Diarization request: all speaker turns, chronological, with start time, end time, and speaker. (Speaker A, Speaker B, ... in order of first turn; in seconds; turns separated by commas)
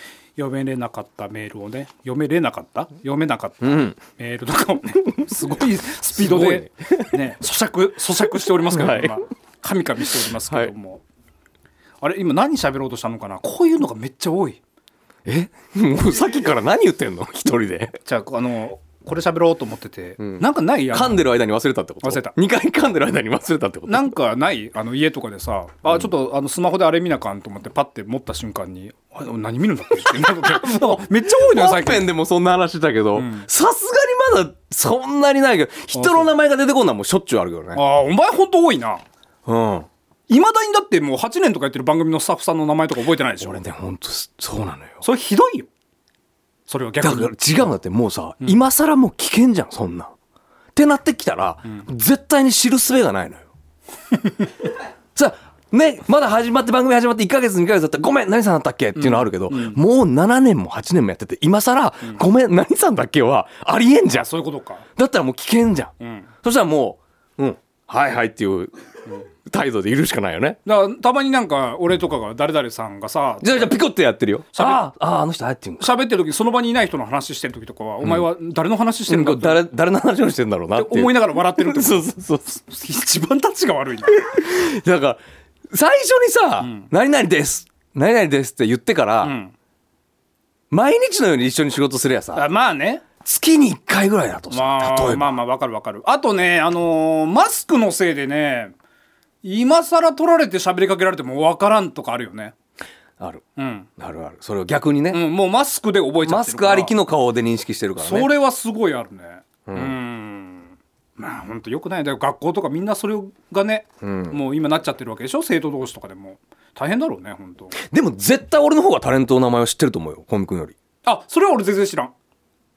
Speaker A: 0.4-11.0, Speaker B: 3.6-4.0, Speaker B: 6.2-7.2, Speaker B: 8.4-9.2, Speaker B: 10.5-10.7, Speaker A: 12.0-14.6, Speaker B: 15.2-18.0, Speaker A: 18.1-21.3, Speaker B: 20.2-24.1, Speaker A: 22.0-22.4, Speaker A: 23.9-32.1, Speaker B: 30.0-37.8, Speaker A: 33.1-33.5, Speaker A: 35.9-36.3, Speaker A: 37.7-39.0, Speaker B: 39.5-39.9, Speaker A: 40.3-43.6, Speaker B: 43.4-45.0, Speaker A: 45.0-45.7, Speaker A: 46.7-47.7, Speaker B: 47.0-50.1, Speaker B: 50.7-53.5, Speaker B: 55.1-64.3, Speaker A: 59.0-59.8, Speaker A: 64.1-64.9, Speaker B: 65.0-70.6, Speaker A: 66.0-66.3, Speaker A: 70.7-73.8, Speaker B: 73.4-75.9, Speaker A: 74.5-74.9, Speaker A: 75.8-79.6, Speaker B: 78.0-78.3, Speaker B: 79.1-82.6, Speaker A: 80.8-84.3, Speaker B: 84.1-89.3, Speaker A: 86.6-86.9, Speaker A: 89.2-89.5, Speaker B: 90.7-92.5, Speaker A: 92.3-93.1, Speaker B: 93.2-95.4, Speaker A: 94.5-98.7, Speaker A: 99.4-102.5, Speaker B: 103.2-103.4, Speaker A: 103.6-103.9, Speaker B: 104.0-105.2, Speaker A: 105.1-106.9, Speaker B: 106.2-108.3, Speaker A: 108.0-117.8, Speaker B: 109.7-110.0, Speaker B: 114.0-114.4, Speaker B: 117.8-120.8, Speaker A: 121.0-122.1